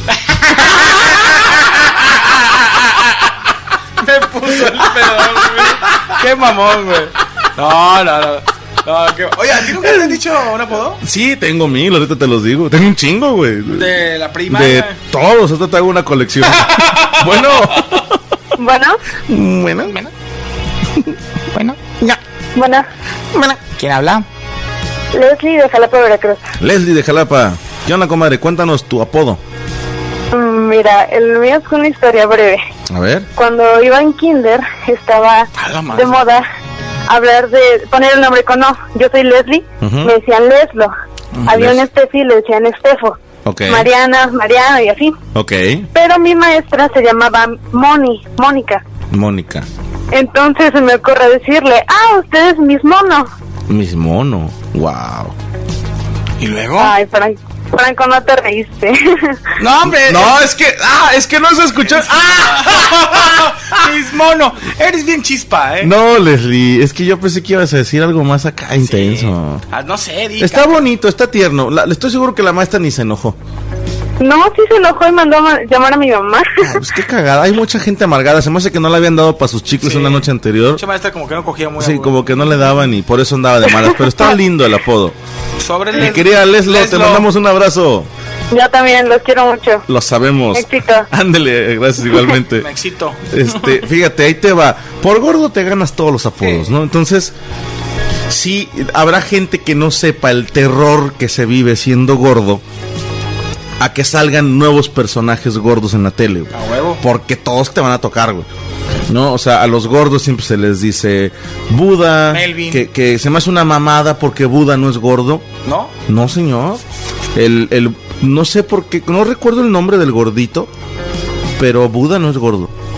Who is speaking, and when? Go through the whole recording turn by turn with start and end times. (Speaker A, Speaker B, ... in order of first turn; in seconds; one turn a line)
Speaker A: 0.3-3.0
Speaker A: 4.0-11.0
Speaker B: 9.8-10.2
Speaker B: 11.0-13.9
Speaker A: 13.7-15.0
Speaker B: 14.5-18.2
Speaker A: 16.6-17.2
Speaker C: 18.6-19.0
Speaker B: 19.3-20.0
Speaker A: 19.8-20.1
Speaker A: 21.5-21.8
Speaker C: 22.6-22.9
Speaker B: 23.3-23.6
Speaker A: 23.8-24.3
Speaker C: 25.1-26.4
Speaker B: 26.6-29.4
Speaker C: 30.3-32.6
Speaker B: 32.9-33.3
Speaker C: 33.4-36.5
Speaker A: 35.6-36.2
Speaker C: 37.1-40.9
Speaker B: 39.8-40.1
Speaker B: 41.5-41.8
Speaker C: 41.5-45.2
Speaker B: 43.5-43.9
Speaker B: 45.3-45.9
Speaker C: 45.9-48.8
Speaker B: 49.1-49.7
Speaker C: 50.1-53.3
Speaker B: 53.7-55.3
Speaker A: 56.4-57.0
Speaker C: 56.8-59.4
Speaker A: 59.6-60.4
Speaker B: 59.9-63.5
Speaker A: 62.5-65.9
Speaker B: 65.8-69.6
Speaker A: 68.8-70.8
Speaker B: 70.4-73.4
Speaker C: 74.2-76.8
Speaker B: 76.6-80.8
Speaker A: 79.8-82.2
Speaker B: 81.8-85.2
Speaker A: 85.6-87.3
Speaker B: 86.0-88.1
Speaker C: 88.5-89.8
Speaker B: 89.9-92.7
Speaker C: 90.5-91.1
Speaker A: 92.6-93.8
Speaker B: 93.3-97.3
Speaker A: 96.4-96.7
Speaker B: 98.3-102.6
Speaker B: 103.8-108.5
Speaker A: 106.5-107.0
Speaker B: 109.1-115.5
Speaker A: 112.3-112.8
Speaker A: 115.7-115.9
Speaker B: 116.1-116.8
Speaker B: 117.3-120.7
Speaker B: 121.6-122.7